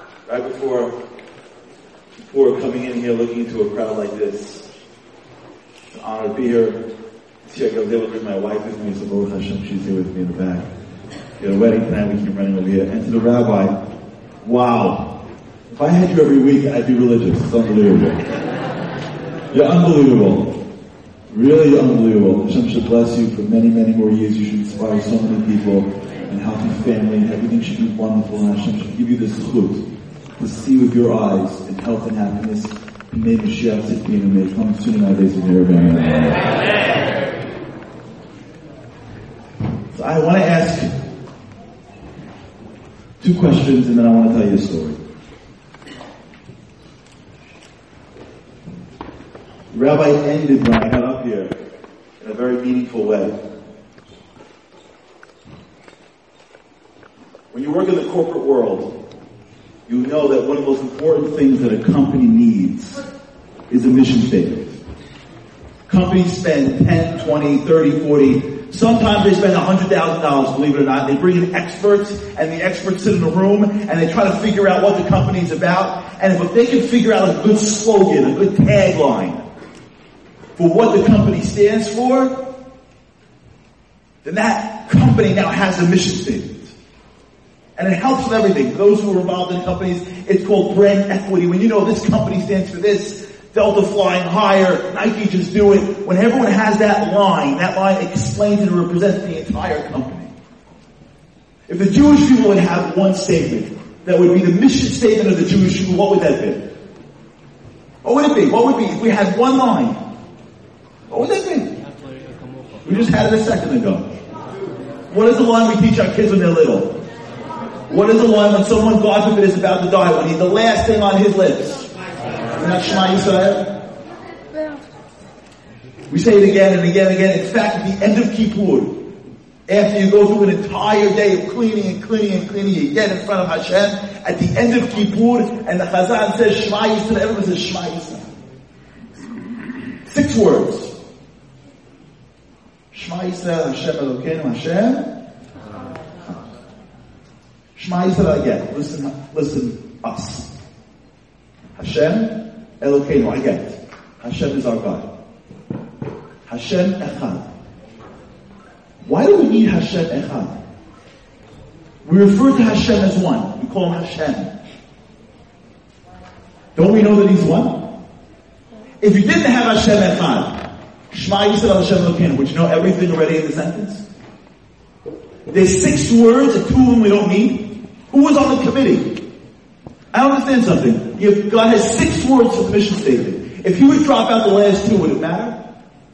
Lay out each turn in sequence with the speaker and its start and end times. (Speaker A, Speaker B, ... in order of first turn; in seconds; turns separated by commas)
Speaker A: 0.3-0.9, Speaker A: 2.1-4.7, Speaker A: 5.9-6.8, Speaker A: 7.4-10.7, Speaker A: 11.4-13.8, Speaker A: 14.4-18.2, Speaker A: 19.5-20.6, Speaker A: 21.3-29.8, Speaker A: 30.4-36.5, Speaker A: 39.9-40.9, Speaker A: 43.2-45.0, Speaker A: 49.7-51.5, Speaker A: 52.2-53.4, Speaker A: 57.5-58.9, Speaker A: 59.9-63.0, Speaker A: 63.7-64.8, Speaker A: 65.9-79.4, Speaker A: 80.5-82.4, Speaker A: 84.2-86.7, Speaker A: 87.8-100.3, Speaker A: 101.7-106.7, Speaker A: 108.0-110.0, Speaker A: 111.1-111.8, Speaker A: 112.8-114.2, Speaker A: 115.1-117.0, Speaker A: 117.9-121.9, Speaker A: 122.5-123.8, Speaker A: 126.1-129.1, Speaker A: 129.7-138.3, Speaker A: 140.1-140.9, Speaker A: 142.9-145.1, Speaker A: 147.7-150.5, Speaker A: 151.8-155.1, Speaker A: 156.4-157.5, Speaker A: 159.0-160.6, Speaker A: 162.0-164.5, Speaker A: 166.7-167.9, Speaker A: 169.0-174.0, Speaker A: 175.5-179.2, Speaker A: 180.1-185.6